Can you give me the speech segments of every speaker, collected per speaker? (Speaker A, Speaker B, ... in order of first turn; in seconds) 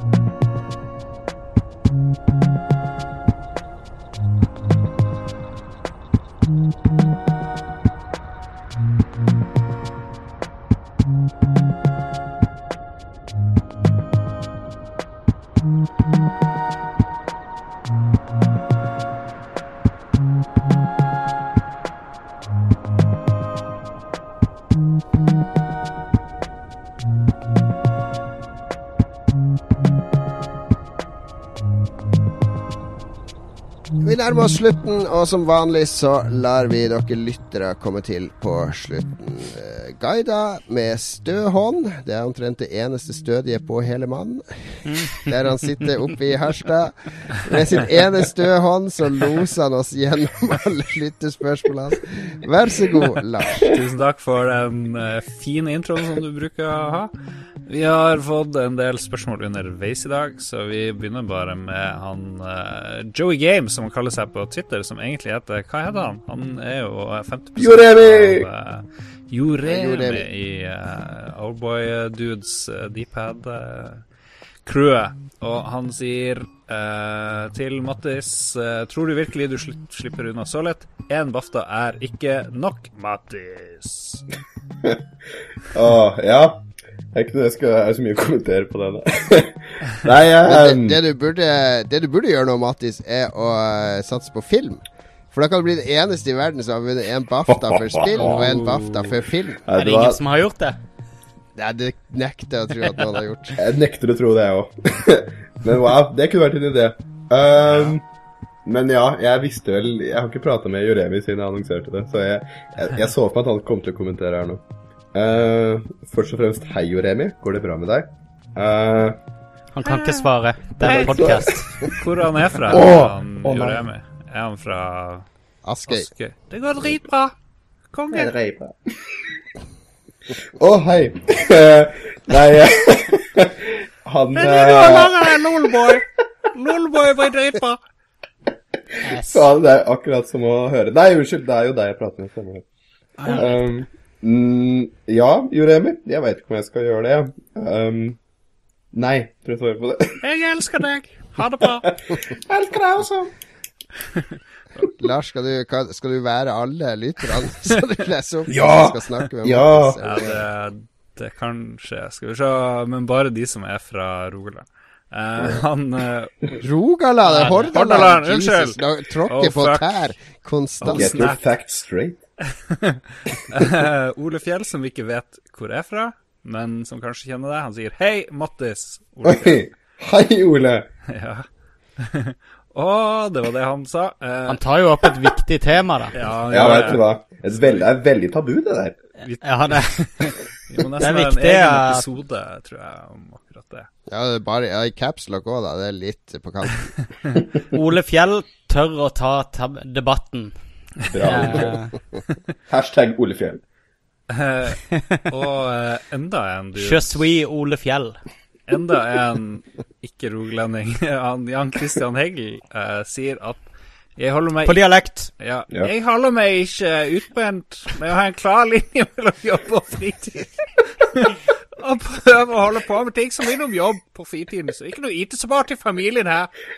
Speaker A: 34.0-53.7, 69.7-70.3, 90.4-99.6, 101.6-103.6, 125.7-126.1, 154.9-160.3, 166.6-171.2, 194.1-196.9
Speaker B: 44.9-45.3, 99.8-100.8, 119.7-121.7, 139.0-139.5, 167.3-167.8, 184.5-186.2, 189.4-190.3, 191.0-192.1, 197.7-200.6, 201.2-201.9, 206.8-208.2, 214.7-215.3
Speaker C: 53.7-57.1, 57.6-74.0, 74.7-84.3, 107.7-108.0, 119.8-121.4, 121.9-125.3, 125.9-127.3, 127.9-128.3, 134.4-137.8, 143.2-143.5, 150.2-151.9, 160.0-166.3, 167.3-170.1, 170.8-171.5, 172.5-179.7, 181.1-181.5, 182.0-184.6, 186.1-187.9, 189.2-193.9, 204.3-207.2, 208.7-226.5
Speaker D: 67.6-68.5, 85.7-91.0, 97.5-100.2, 103.6-108.0, 108.7-114.6, 115.1-119.2, 120.8-121.9, 122.7-123.9, 128.1-129.2, 130.3-135.6, 139.1-142.7, 143.2-148.2, 148.9-150.2, 151.9-153.3, 158.5-160.3, 170.9-172.2, 179.2-180.9, 186.5-189.0, 201.1-201.8, 202.7-203.6